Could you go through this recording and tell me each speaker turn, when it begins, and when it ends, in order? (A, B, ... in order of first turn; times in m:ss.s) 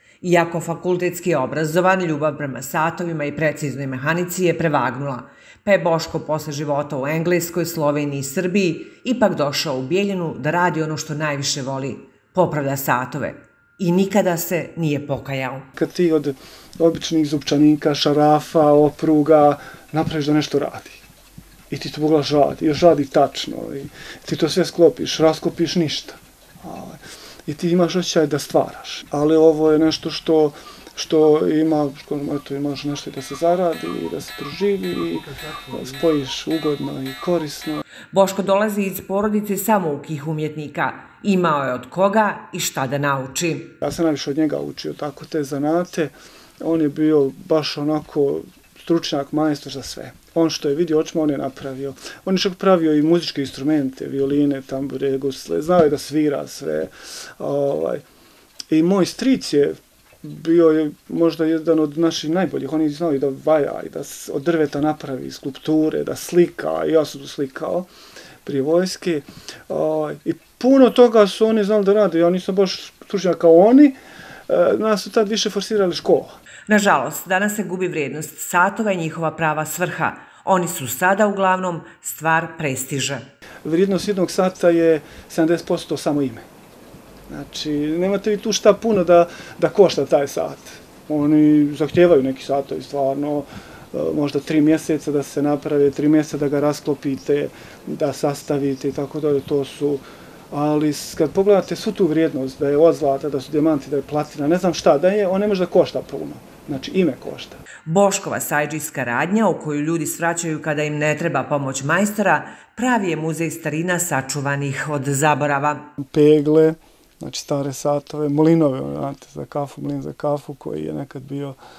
0:00.2-0:15.7 A
0:15.8-0:21.0 B
0:21.7-0:37.8 B
0:38.1-0:43.7 A
0:43.8-0:58.0 B
0:58.7-1:07.9 B
1:08.4-1:14.0 B
1:14.5-1:16.3 B
1:16.7-1:23.2 A
1:23.6-1:26.4 B
1:27.3-1:47.6 B
1:47.8-1:55.8 A
1:56.0-2:01.6 B